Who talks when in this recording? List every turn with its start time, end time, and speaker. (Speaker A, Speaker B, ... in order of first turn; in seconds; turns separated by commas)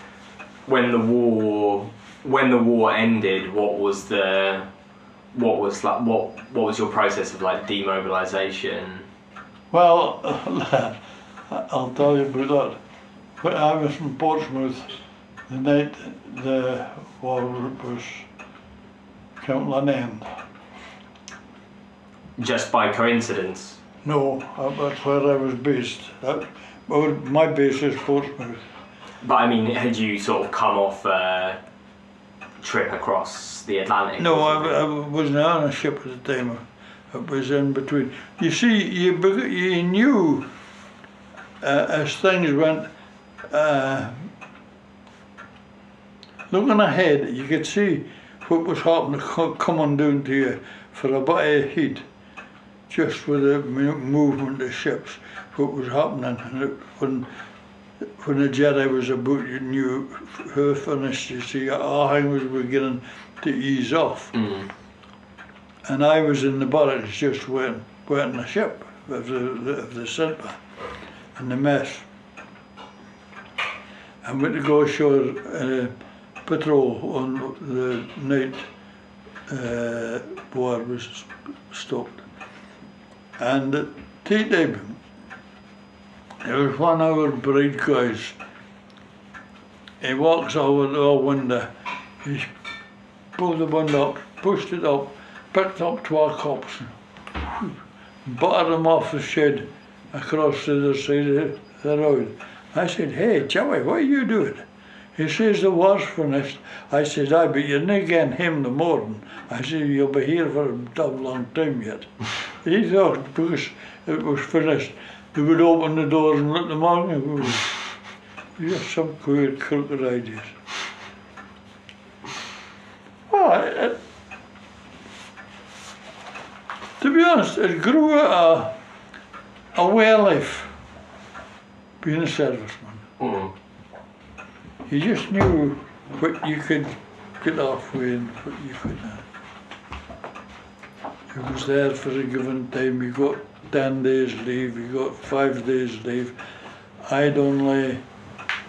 Speaker A: 0.7-4.7, Speaker A: 5.3-9.1, Speaker B: 9.7-12.8, Speaker B: 13.4-14.9, Speaker B: 15.5-18.3, Speaker B: 19.4-20.2, Speaker A: 22.4-23.8, Speaker B: 24.0-28.6, Speaker A: 29.2-31.6, Speaker A: 32.6-34.8, Speaker B: 34.2-40.5, Speaker B: 41.6-42.9, Speaker B: 43.5-44.3, Speaker B: 46.5-52.0, Speaker B: 52.9-57.3, Speaker B: 58.2-64.4, Speaker B: 65.8-70.6, Speaker B: 71.3-72.1, Speaker B: 74.2-75.9, Speaker B: 76.5-78.7, Speaker B: 79.5-82.2, Speaker B: 83.4-85.0, Speaker B: 86.4-88.4, Speaker B: 90.0-91.7, Speaker B: 92.2-92.5, Speaker B: 93.3-96.9, Speaker B: 97.5-117.8, Speaker B: 118.6-120.6, Speaker B: 123.3-124.0, Speaker B: 127.0-128.8, Speaker B: 129.8-130.8, Speaker B: 132.0-133.0, Speaker A: 133.2-133.5, Speaker B: 134.9-139.2, Speaker B: 141.3-146.4, Speaker B: 147.1-148.0